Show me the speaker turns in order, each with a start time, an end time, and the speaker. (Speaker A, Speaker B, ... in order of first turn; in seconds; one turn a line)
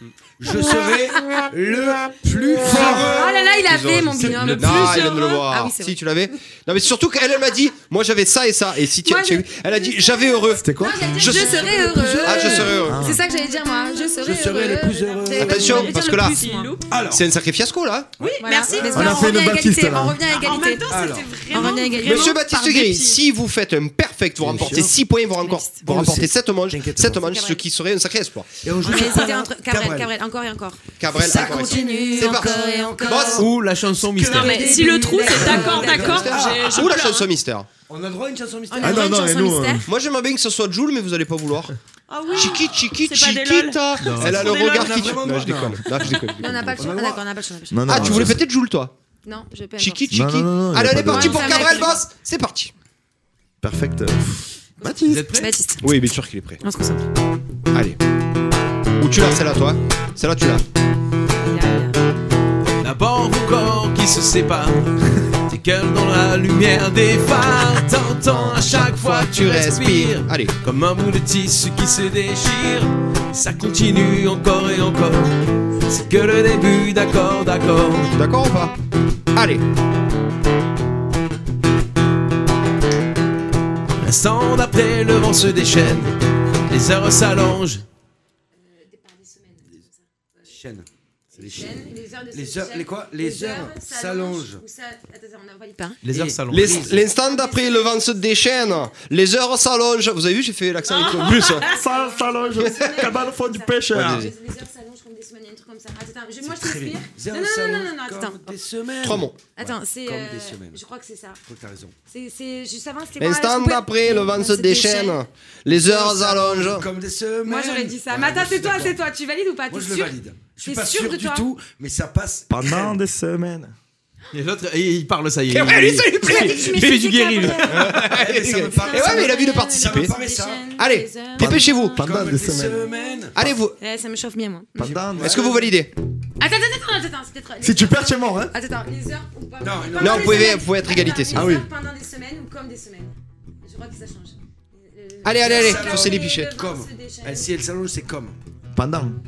Speaker A: 0.4-5.1
Speaker B: 2.6-6.0
Speaker C: 3.7-13.1
Speaker D: 4.9-5.4
Speaker B: 9.0-16.7
Speaker E: 10.6-11.4
Speaker A: 11.4-12.9
Speaker E: 12.8-13.2
Speaker A: 14.2-15.8
Speaker D: 15.2-16.9
Speaker C: 15.4-16.4
Speaker A: 16.9-17.3
Speaker C: 17.1-18.1
Speaker A: 18.2-19.1
Speaker D: 18.2-19.3
Speaker B: 18.4-20.9
Speaker E: 18.9-20.2
Speaker D: 20.3-22.4
Speaker A: 20.9-21.3
Speaker B: 21.5-23.2
Speaker C: 22.0-28.6
Speaker A: 24.4-25.0
Speaker B: 25.4-25.8
Speaker A: 25.8-27.4
Speaker B: 27.2-27.6
Speaker A: 28.6-30.1
Speaker B: 28.8-30.8
Speaker D: 28.9-29.1
Speaker C: 31.0-33.5
Speaker A: 31.1-36.9
Speaker B: 31.4-33.5
Speaker F: 33.4-34.9
Speaker B: 34.3-36.3
Speaker D: 34.3-37.3
Speaker C: 35.3-37.7
Speaker A: 37.9-39.1
Speaker B: 38.7-39.9
Speaker E: 38.8-39.9
Speaker C: 39.9-41.7
Speaker D: 42.1-45.4
Speaker C: 42.3-46.9
Speaker F: 44.0-44.5
Speaker A: 44.5-46.1
Speaker B: 46.4-48.4
Speaker A: 46.7-47.2
Speaker E: 47.7-48.4
Speaker C: 47.9-48.9
Speaker B: 49.2-50.2
Speaker C: 49.8-52.7
Speaker E: 50.1-51.4
Speaker B: 51.1-52.0
Speaker D: 51.4-52.0
Speaker E: 53.6-55.3
Speaker B: 54.8-55.8
Speaker F: 55.0-55.6
Speaker C: 55.8-56.6
Speaker B: 56.6-57.0
Speaker C: 57.7-58.0
Speaker C: 59.0-60.6
Speaker B: 61.4-62.0
Speaker F: 62.8-64.9
Speaker F: 65.5-75.3
Speaker C: 68.2-70.5
Speaker F: 75.9-78.1
Speaker C: 78.2-78.8
Speaker C: 79.3-79.6
Speaker F: 84.0-86.1
Speaker F: 86.7-87.8
Speaker B: 88.6-90.5
Speaker A: 90.5-94.6
Speaker B: 91.3-96.0
Speaker F: 96.0-96.8
Speaker A: 96.1-97.0
Speaker C: 96.5-101.7
Speaker B: 97.0-98.8
Speaker D: 100.8-101.8
Speaker B: 100.9-108.5
Speaker E: 101.7-104.3
Speaker C: 103.9-104.3
Speaker A: 106.4-110.8
Speaker C: 109.0-109.4
Speaker B: 109.5-111.4
Speaker A: 111.4-111.9
Speaker B: 112.0-115.2
Speaker C: 113.2-116.9
Speaker A: 115.8-119.0
Speaker B: 117.4-121.5
Speaker A: 119.7-122.9
Speaker E: 122.5-123.7
Speaker F: 124.3-128.1
Speaker C: 125.5-130.1
Speaker B: 126.2-128.0
Speaker A: 128.0-130.7
Speaker B: 128.7-132.0
Speaker C: 130.8-132.1
Speaker E: 131.4-132.9
Speaker A: 131.9-133.4
Speaker B: 132.8-135.2
Speaker C: 133.3-133.8
Speaker E: 134.8-135.4
Speaker A: 134.8-135.7
Speaker C: 135.2-135.9
Speaker B: 136.4-147.6
Speaker E: 137.6-138.5
Speaker A: 139.6-140.7
Speaker C: 140.0-141.5
Speaker E: 141.3-141.7
Speaker C: 145.2-146.5
Speaker A: 145.4-148.4
Speaker E: 148.7-149.2